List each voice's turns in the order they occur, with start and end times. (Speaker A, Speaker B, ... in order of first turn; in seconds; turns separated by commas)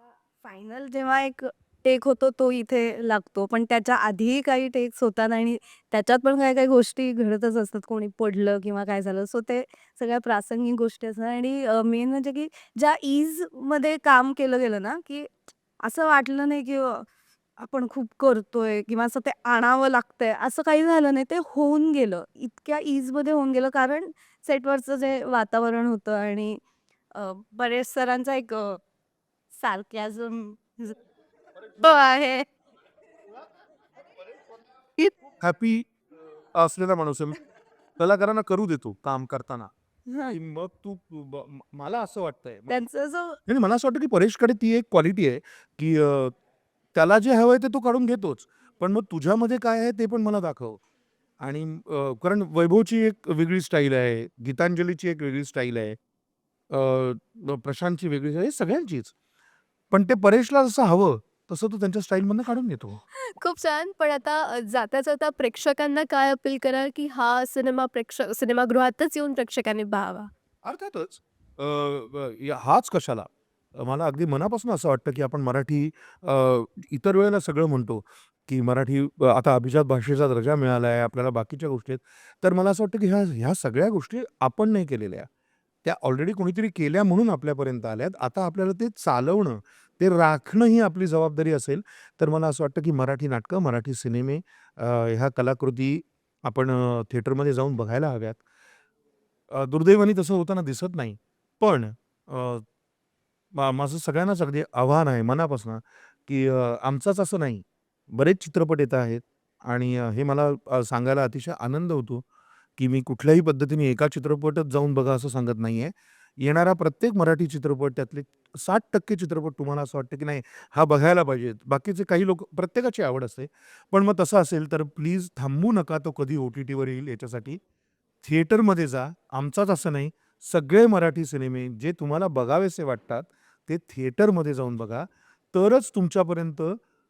Speaker A: 0.3-17.1, Speaker A: 17.6-26.6, Speaker A: 27.1-28.8, Speaker A: 29.5-30.9, Speaker A: 31.8-32.5, Speaker B: 35.4-35.9, Speaker B: 36.5-37.4, Speaker B: 38.0-39.7, Speaker B: 40.3-42.8, Speaker A: 42.7-43.4, Speaker B: 43.5-46.3, Speaker B: 47.0-50.8, Speaker B: 51.4-56.0, Speaker B: 56.7-59.1, Speaker B: 59.9-63.0, Speaker C: 63.4-70.3, Speaker B: 70.7-85.3, Speaker B: 85.8-98.4, Speaker B: 99.5-102.7, Speaker B: 103.5-112.2, Speaker B: 112.8-127.6, Speaker B: 128.2-136.8